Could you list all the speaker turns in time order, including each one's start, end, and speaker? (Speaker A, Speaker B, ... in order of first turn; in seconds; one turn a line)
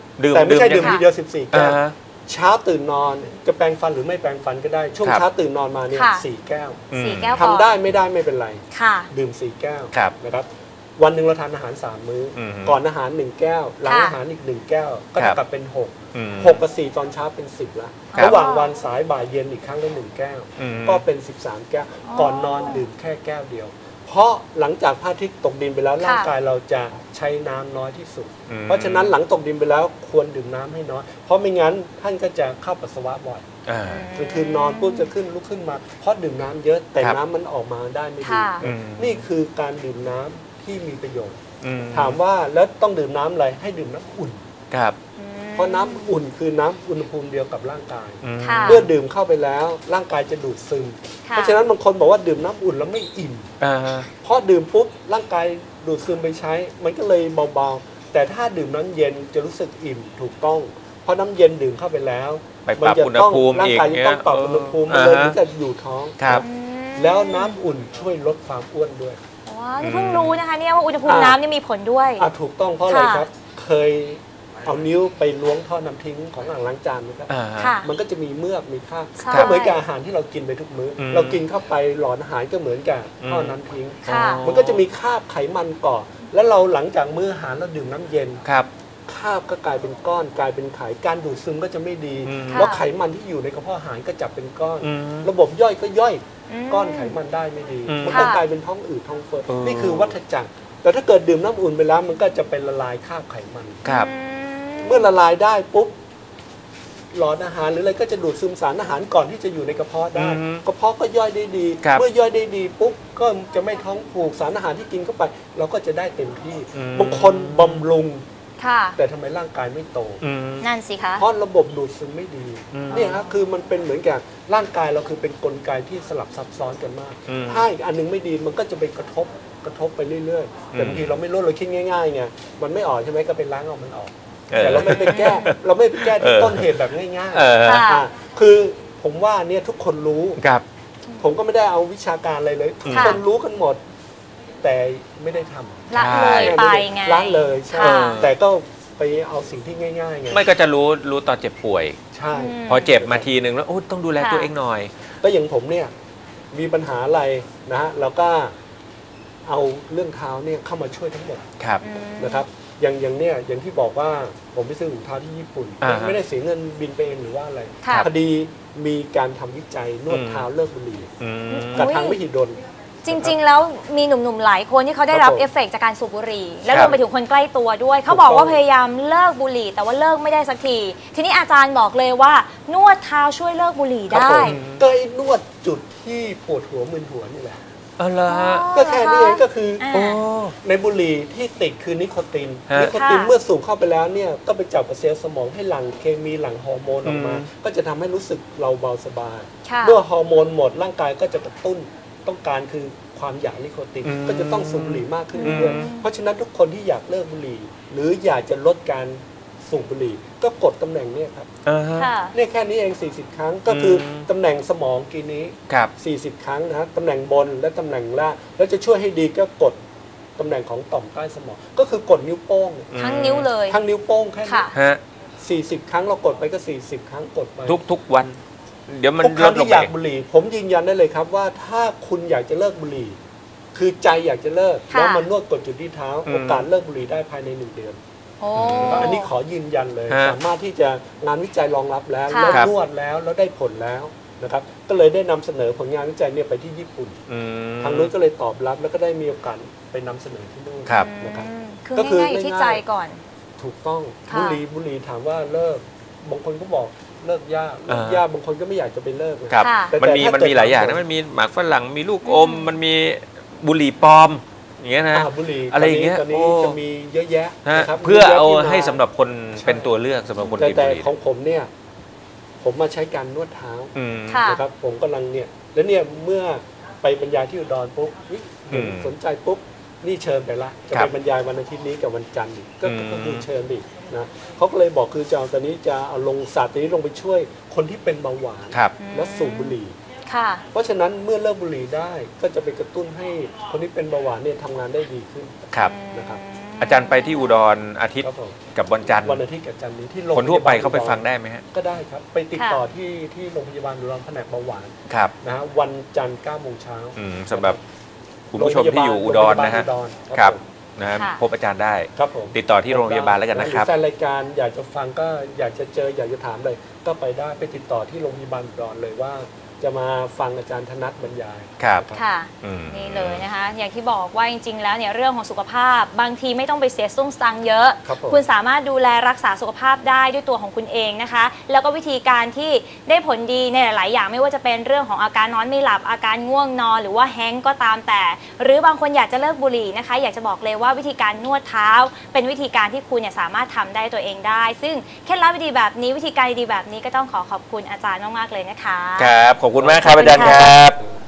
Speaker A: 0.2-1.0
Speaker B: 0.3-33.5
Speaker A: 1.5-1.9
Speaker C: 5.9-6.2
Speaker A: 6.9-7.4
Speaker C: 6.9-7.7
Speaker C: 8.7-9.1
Speaker A: 12.4-12.8
Speaker C: 13.9-14.2
Speaker A: 16.1-16.6
Speaker C: 18.1-18.7
Speaker A: 20.6-21.0
Speaker C: 22.1-22.8
Speaker C: 26.0-26.3
Speaker A: 28.5-29.1
Speaker A: 33.7-34.0
Speaker C: 33.9-35.1
Speaker B: 34.1-41.4
Speaker C: 38.2-38.6
Speaker A: 38.6-39.3
Speaker A: 41.6-42.2
Speaker B: 41.9-44.4
Speaker A: 44.7-45.0
Speaker C: 45.2-46.0
Speaker B: 45.5-53.5
Speaker A: 48.2-48.9
Speaker C: 48.4-48.9
Speaker C: 51.3-51.6
Speaker A: 53.6-54.1
Speaker B: 54.2-66.5
Speaker A: 62.6-65.4
Speaker C: 66.4-67.6
Speaker B: 67.0-69.2
Speaker C: 69.5-72.3
Speaker A: 69.8-70.4
Speaker B: 71.0-71.4
Speaker B: 72.2-77.3
Speaker C: 72.9-73.3
Speaker A: 77.3-77.7
Speaker C: 77.6-77.9
Speaker B: 77.8-88.4
Speaker C: 79.2-79.8
Speaker A: 81.0-81.4
Speaker A: 83.2-84.8
Speaker C: 84.1-84.5
Speaker B: 89.1-103.8
Speaker A: 92.3-92.7
Speaker C: 92.5-92.8
Speaker A: 94.8-95.3
Speaker C: 96.5-97.2
Speaker A: 97.9-98.3
Speaker C: 98.1-98.4
Speaker A: 99.5-100.2
Speaker C: 103.8-105.1
Speaker B: 104.8-106.0
Speaker B: 107.1-118.2
Speaker A: 110.2-110.6
Speaker A: 116.8-117.8
Speaker C: 118.6-119.0
Speaker B: 119.0-120.2
Speaker A: 120.2-120.7
Speaker C: 120.6-121.2
Speaker B: 121.2-140.4
Speaker A: 122.7-123.2
Speaker A: 127.3-127.7
Speaker A: 130.8-131.1
Speaker A: 134.5-136.7
Speaker C: 134.8-135.5
Speaker A: 137.3-137.9
Speaker C: 137.6-138.1
Speaker B: 141.2-143.8
Speaker A: 142.8-143.2
Speaker C: 142.9-143.2
Speaker B: 144.6-150.4
Speaker C: 145.9-148.2
Speaker A: 146.0-146.6
Speaker A: 147.7-148.3
Speaker A: 150.3-152.0
Speaker B: 152.1-153.3
Speaker C: 152.3-153.0
Speaker A: 152.7-154.9
Speaker C: 154.2-154.5
Speaker B: 155.2-155.9
Speaker B: 156.5-158.5
Speaker B: 159.5-161.4
Speaker C: 161.8-162.4
Speaker B: 162.2-171.1
Speaker A: 165.8-166.2
Speaker C: 167.8-168.1
Speaker A: 170.1-170.5
Speaker A: 171.2-171.9
Speaker C: 171.5-172.2
Speaker B: 171.7-172.6
Speaker C: 173.1-184.6
Speaker B: 175.1-175.4
Speaker B: 176.7-177.0
Speaker A: 176.7-177.0
Speaker B: 178.1-178.6
Speaker B: 184.1-187.6
Speaker A: 184.5-184.8
Speaker A: 188.0-188.7
Speaker C: 188.3-190.2
Speaker B: 188.7-189.8
Speaker A: 189.9-190.6
Speaker B: 190.6-211.5
Speaker C: 192.8-193.3
Speaker A: 197.0-197.4
Speaker C: 199.7-200.0
Speaker A: 204.0-205.9
Speaker C: 205.3-206.1
Speaker A: 211.7-212.1
Speaker C: 212.0-212.3
Speaker B: 212.3-219.8
Speaker A: 213.7-214.3
Speaker B: 220.4-222.9
Speaker A: 222.9-223.5
Speaker C: 223.0-223.8
Speaker B: 223.7-224.7
Speaker C: 224.4-224.7
Speaker A: 224.7-225.0
Speaker B: 225.4-227.8
Speaker A: 227.7-228.4
Speaker A: 228.9-229.9
Speaker B: 229.2-233.2
Speaker B: 233.8-238.0
Speaker C: 234.9-235.3
Speaker A: 236.3-236.7
Speaker C: 238.4-239.3
Speaker A: 238.6-239.1
Speaker B: 238.7-247.2
Speaker A: 240.1-240.4
Speaker C: 242.3-242.6
Speaker A: 247.3-248.1
Speaker B: 247.8-252.8
Speaker C: 250.9-253.2
Speaker B: 253.6-261.0
Speaker C: 254.3-254.6
Speaker A: 257.9-258.2
Speaker A: 259.5-266.8
Speaker C: 259.6-259.9
Speaker C: 262.2-262.7
Speaker B: 265.1-269.0
Speaker A: 267.7-271.1
Speaker B: 269.6-269.9
Speaker B: 270.4-271.7
Speaker B: 272.6-290.0
Speaker A: 274.0-274.4
Speaker C: 274.3-274.6
Speaker A: 278.7-279.1
Speaker A: 282.8-283.4
Speaker A: 288.7-289.0
Speaker C: 289.0-290.6
Speaker B: 290.7-296.4
Speaker C: 295.8-297.6
Speaker A: 296.8-299.4
Speaker B: 298.2-298.6
Speaker B: 299.1-307.8
Speaker A: 300.3-301.6
Speaker C: 302.5-302.8
Speaker A: 305.1-305.3
Speaker A: 307.2-307.8
Speaker A: 308.5-313.9
Speaker B: 308.6-310.6
Speaker C: 311.1-311.4
Speaker B: 312.2-322.2
Speaker A: 321.8-322.1
Speaker C: 322.1-349.3
Speaker A: 322.6-323.4
Speaker B: 328.1-328.4
Speaker A: 349.2-351.0
Speaker B: 349.8-351.0
Speaker C: 350.1-350.6